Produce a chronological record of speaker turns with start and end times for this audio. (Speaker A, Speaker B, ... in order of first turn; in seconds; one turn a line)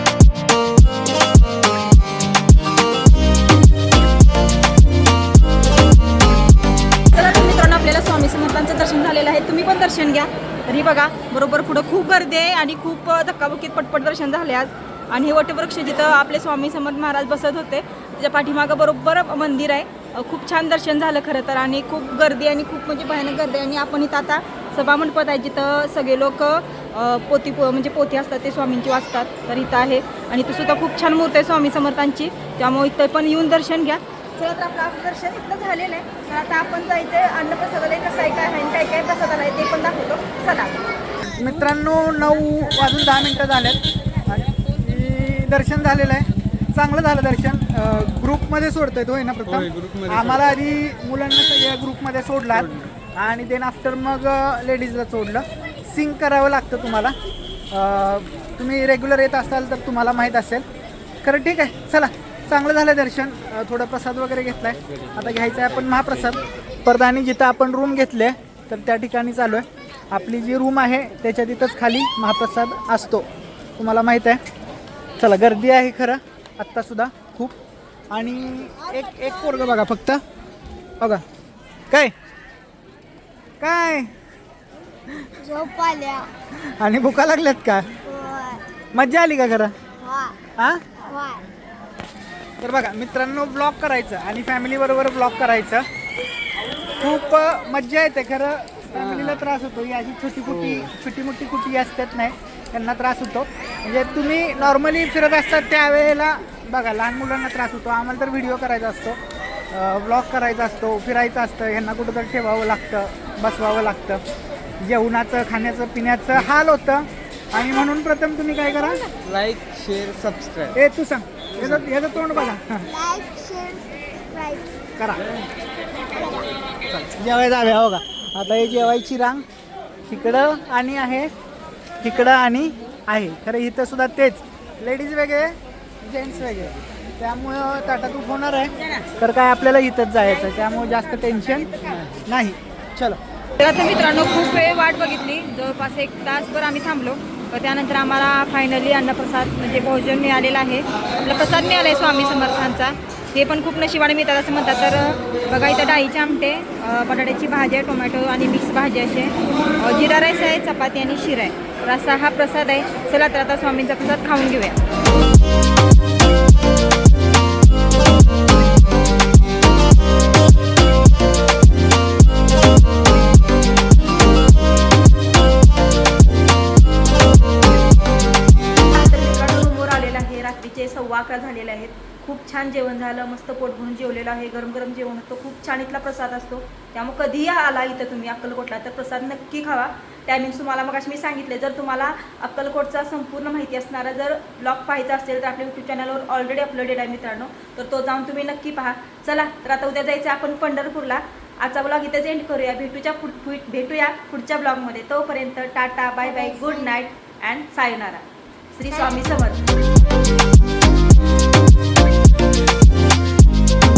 Speaker A: 7.1-40.8
Speaker B: 41.2-57.1
Speaker C: 49.4-50.5
Speaker C: 52.5-52.9
Speaker B: 57.7-60.6
Speaker B: 61.2-74.4
Speaker B: 75.2-77.5
Speaker B: 78.1-80.2
Speaker B: 83.6-84.1
Speaker D: 85.4-86.3
Speaker B: 86.6-87.9
Speaker D: 88.0-88.6
Speaker B: 88.9-89.8
Speaker D: 90.0-90.4
Speaker B: 90.6-90.8
Speaker D: 91.0-91.4
Speaker B: 92.6-95.9
Speaker B: 97.0-109.2
Speaker C: 99.0-99.4
Speaker B: 109.7-114.2
Speaker B: 114.8-119.0
Speaker C: 119.2-120.8
Speaker B: 120.7-122.9
Speaker D: 122.9-124.7
Speaker B: 125.0-125.2
Speaker D: 126.0-126.5
Speaker B: 127.0-129.4
Speaker B: 130.1-131.3
Speaker B: 132.0-143.2
Speaker A: 143.6-164.8
Speaker A: 178.9-209.6
Speaker D: 206.3-207.0